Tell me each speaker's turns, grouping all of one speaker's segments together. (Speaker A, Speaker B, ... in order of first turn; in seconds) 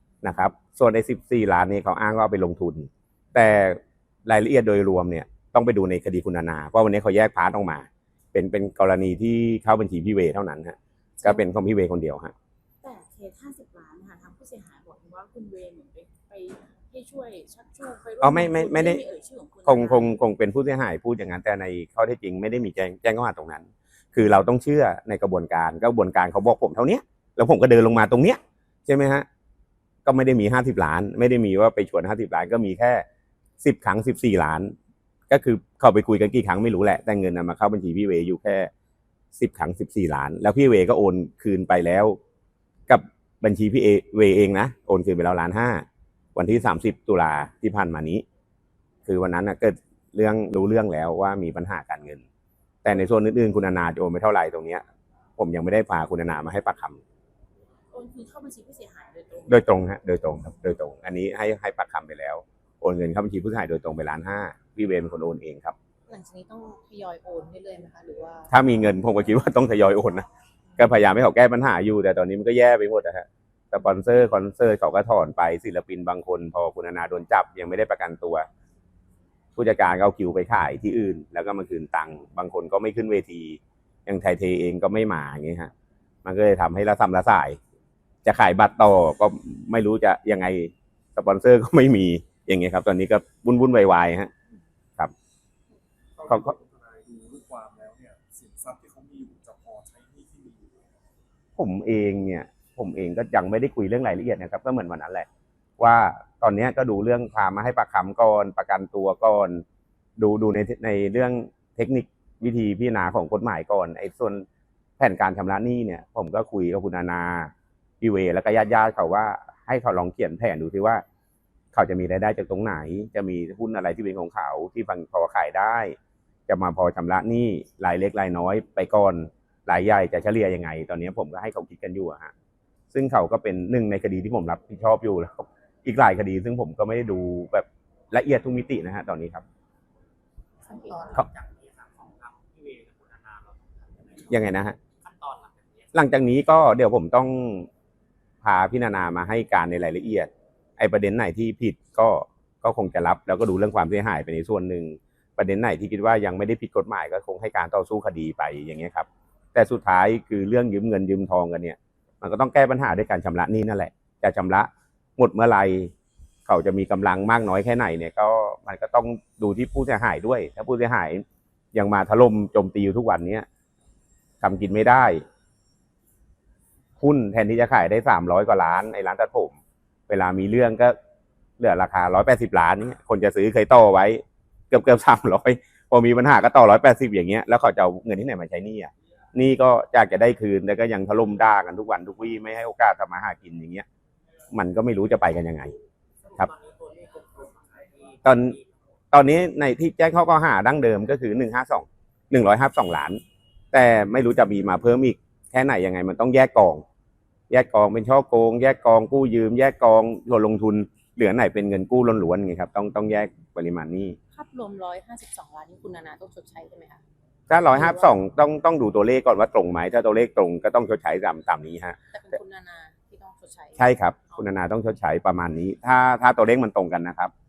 Speaker A: 0.2-12.3, 18.2-19.0, 19.6-29.2, 30.1-33.0, 33.6-34.7, 35.3-38.7, 39.3-42.2, 42.9-48.2, 49.1-52.2, 52.8-54.8, 55.4-57.0, 59.5-65.7, 68.5-78.5, 79.5-85.7, 86.2-87.6, 88.2-94.3, 96.3-96.5, 101.6-105.3, 105.8-109.6, 110.2-114.4, 115.0-121.0, 121.7-126.0, 126.5-132.3, 132.9-139.4, 144.3-144.8, 145.9-147.7, 148.4-165.9, 166.4-173.4, 174.4-175.2, 177.0-179.6, 180.1-180.9, 181.6-193.8, 194.5-195.8, 198.2-198.6, 199.1-203.2, 203.7-206.8, 207.5-214.2, 217.5-222.0, 223.8-227.3
Speaker B: 11.2-11.4, 12.8-20.2, 57.9-59.7
Speaker C: 66.1-68.5, 140.7-141.2, 214.3-217.0, 222.1-224.4
Speaker D: 96.2-100.8
Speaker E: 140.7-145.9, 196.2-198.8